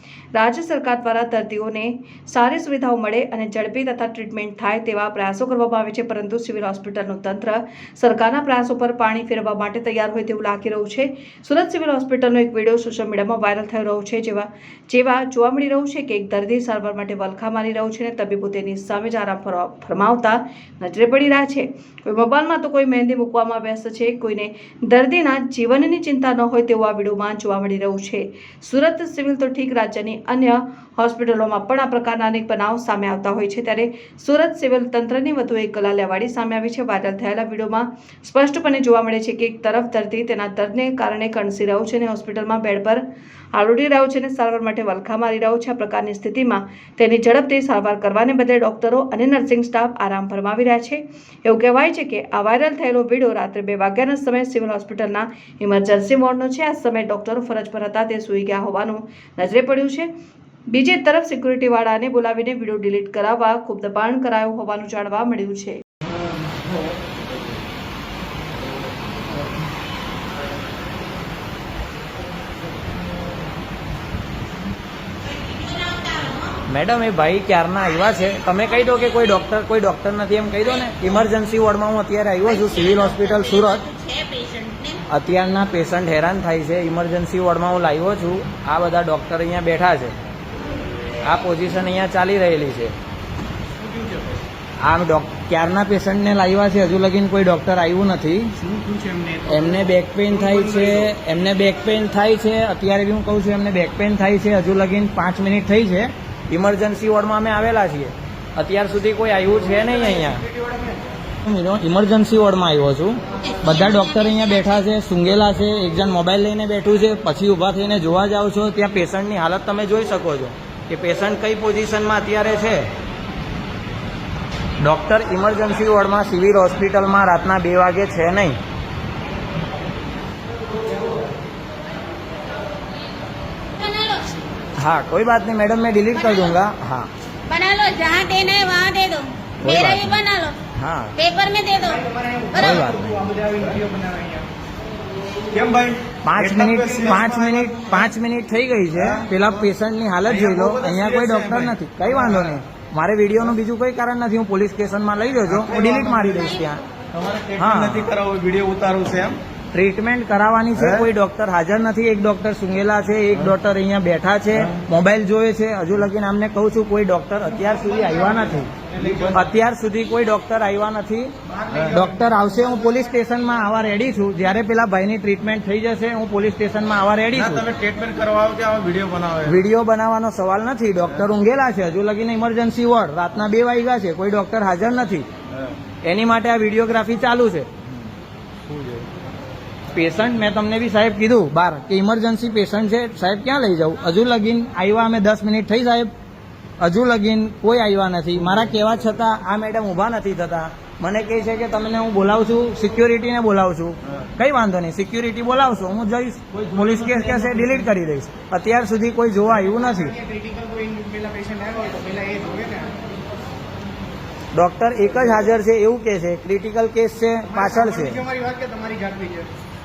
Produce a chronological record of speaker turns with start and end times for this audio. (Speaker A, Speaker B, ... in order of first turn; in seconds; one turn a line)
Speaker A: 0.3-43.0
Speaker A: 43.5-60.1
Speaker A: 60.7-65.8
Speaker B: 75.6-76.4
Speaker C: 76.6-83.9
Speaker B: 82.9-85.0
Speaker C: 85.1-90.1
Speaker C: 91.2-92.9
Speaker C: 94.8-98.5
Speaker D: 98.7-99.6
Speaker C: 99.5-110.4
Speaker C: 111.4-122.9
Speaker C: 124.8-128.6
Speaker B: 133.8-134.3
Speaker C: 134.8-137.1
Speaker B: 137.5-140.6
Speaker C: 139.6-141.2
Speaker B: 141.2-142.1
Speaker D: 142.1-144.5
Speaker C: 142.5-143.3
Speaker D: 145.5-147.7
Speaker C: 146.2-156.8
Speaker D: 150.4-151.7
Speaker D: 155.6-156.3
Speaker D: 157.1-159.4
Speaker C: 157.6-158.1
Speaker C: 159.7-177.7
Speaker D: 169.1-169.3
Speaker D: 171.7-172.0
Speaker D: 177.5-179.5
Speaker C: 179.4-185.2
Speaker C: 186.0-187.7
Speaker C: 189.9-196.1
Speaker C: 196.8-210.2
Speaker D: 210.2-212.9
Speaker C: 214.5-218.2
Speaker D: 217.6-219.5